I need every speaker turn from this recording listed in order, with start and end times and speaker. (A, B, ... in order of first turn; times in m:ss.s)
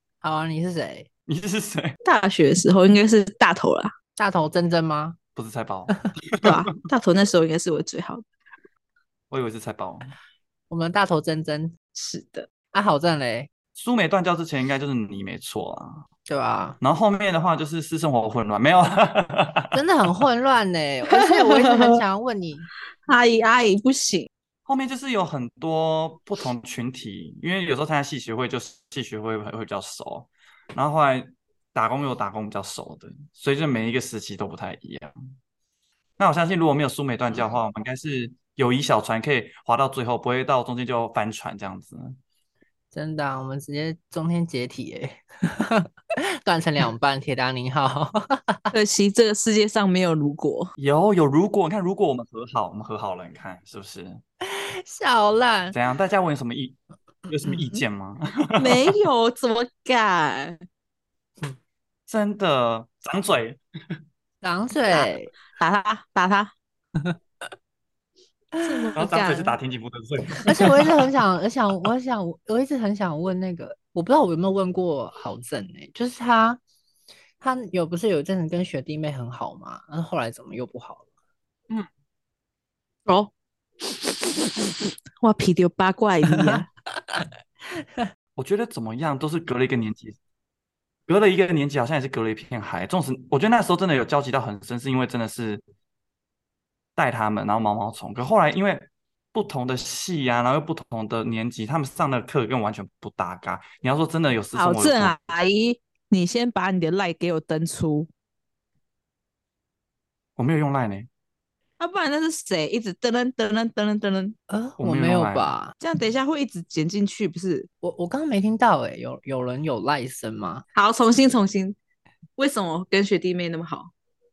0:00.2-0:01.1 A
0:01.3-0:02.0 B
0:02.0-0:03.9 C
0:04.2-0:05.2 A
0:05.4-0:06.7 B
0:06.4-0:08.2 C
0:09.3-0:10.1 B
0:10.7-0:11.7 A
0:12.0-0:12.5 C
0:12.7-0:13.5 A
0:13.8-0:16.1 B
0:16.3-0:16.8 A
0:16.8-0:19.8 B
0:19.7-0:22.7 A
0:21.2-0:22.0 C
0:23.1-0:24.3 C
0:24.7-0:35.2 B
0:36.2-0:42.2 B
0:42.9-0:48.6 A
0:48.7-0:50.7 C
0:50.8-0:54.2 B
0:54.4-0:55.8 A
0:55.7-0:59.0 B
0:58.6-1:00.6 C
1:02.1-1:03.6 B
1:04.4-1:05.3 A
1:05.0-1:06.5 C
1:08.6-1:08.9 A
1:08.6-1:09.6 C
1:09.0-1:10.9 B
1:10.5-1:16.6 A
1:17.4-1:21.0 A
1:23.1-1:26.7 C
1:28.4-1:30.2 B
1:31.1-1:35.6 B
1:37.0-1:45.1 B
1:44.5-1:48.1 C
1:50.4-1:51.1 B
1:51.8-1:54.4 C
1:54.5-1:55.7 A
1:54.8-1:55.5 B
1:55.8-1:57.7 C
1:57.8-2:00.6 A
2:00.7-2:01.8 C
2:02.4-2:03.9 C